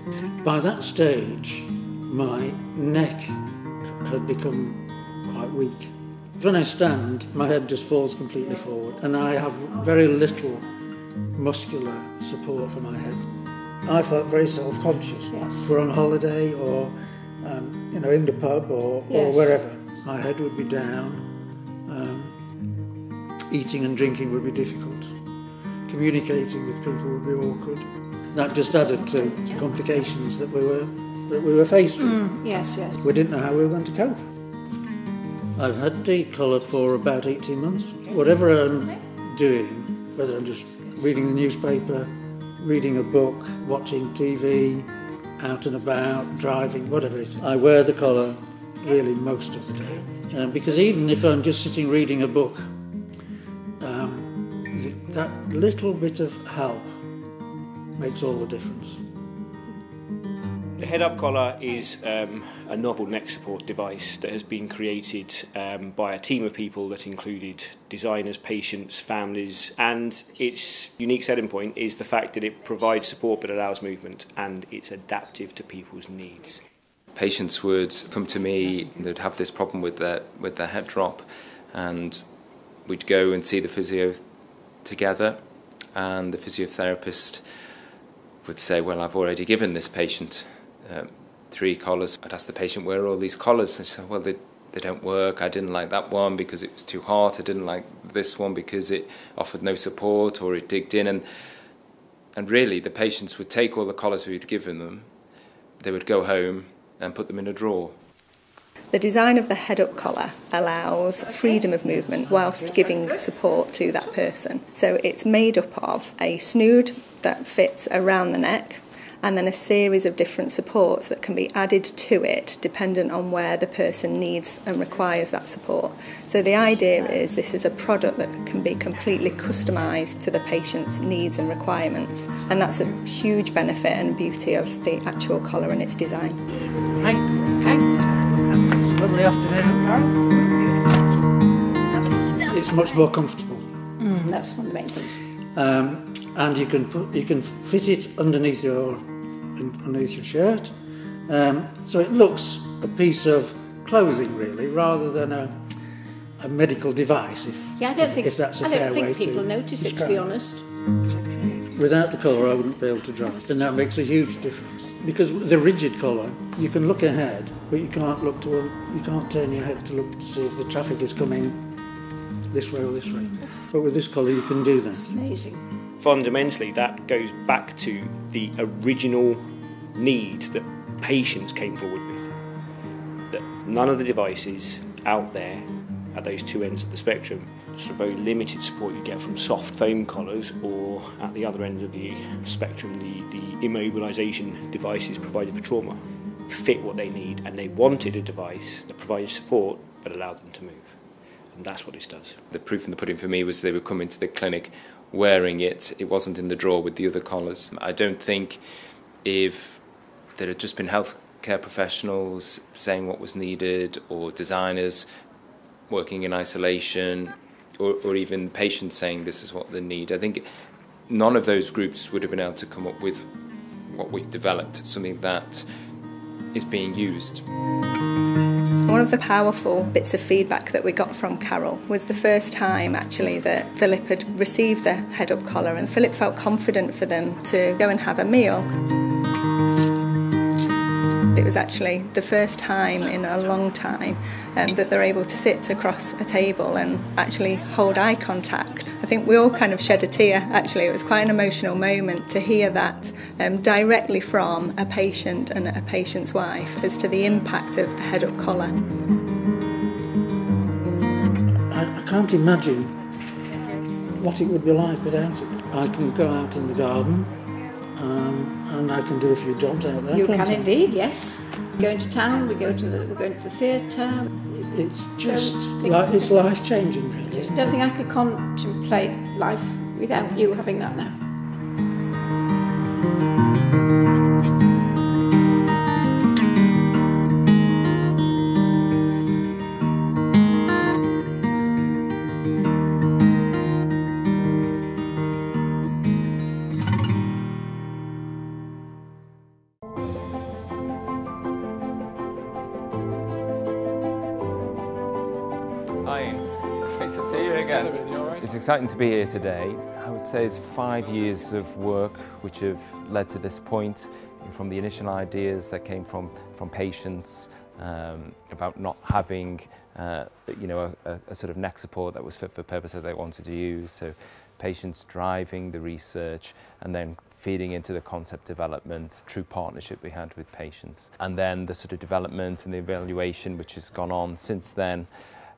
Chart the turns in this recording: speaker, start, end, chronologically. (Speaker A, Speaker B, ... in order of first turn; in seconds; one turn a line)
Speaker A: 0.4-3.4
Speaker A: 4.0-10.7
Speaker A: 11.3-13.2
Speaker A: 13.8-21.2
Speaker B: 15.3-15.8
Speaker B: 19.1-19.6
Speaker A: 21.9-22.4
Speaker A: 23.5-25.1
Speaker A: 25.9-34.2
Speaker B: 32.0-33.1
Speaker A: 35.5-52.7
Speaker A: 53.8-57.0
Speaker A: 57.9-59.0
Speaker C: 60.8-76.6
Speaker D: 77.1-82.3
Speaker D: 82.8-84.2
Speaker D: 84.8-87.4
Speaker D: 88.4-101.2
Speaker D: 102.3-105.1
Speaker D: 105.8-108.0
Speaker E: 108.9-136.4
Speaker A: 111.9-112.8
Speaker A: 136.7-140.5
Speaker A: 142.2-143.7
Speaker B: 144.0-145.2
Speaker A: 145.5-150.7
Speaker A: 151.3-155.6
Speaker A: 156.4-160.4
Speaker B: 157.8-160.7
Speaker A: 161.5-171.6
Speaker A: 172.5-175.2
Speaker B: 174.9-175.6
Speaker C: 176.0-179.4
Speaker C: 179.9-182.3
Speaker C: 183.3-201.0
Speaker C: 201.5-202.4
Speaker D: 202.5-208.6
Speaker D: 209.2-215.1
Speaker D: 215.9-220.4
Speaker D: 221.1-225.6
Speaker D: 226.5-227.4
Speaker E: 228.9-238.7
Speaker E: 241.3-258.7
Speaker A: 261.7-263.0
Speaker A: 264.1-267.4
Speaker A: 267.9-270.8
Speaker B: 270.1-274.3
Speaker A: 274.4-277.7
Speaker B: 275.2-276.4
Speaker B: 277.3-281.2
Speaker D: 306.0-335.1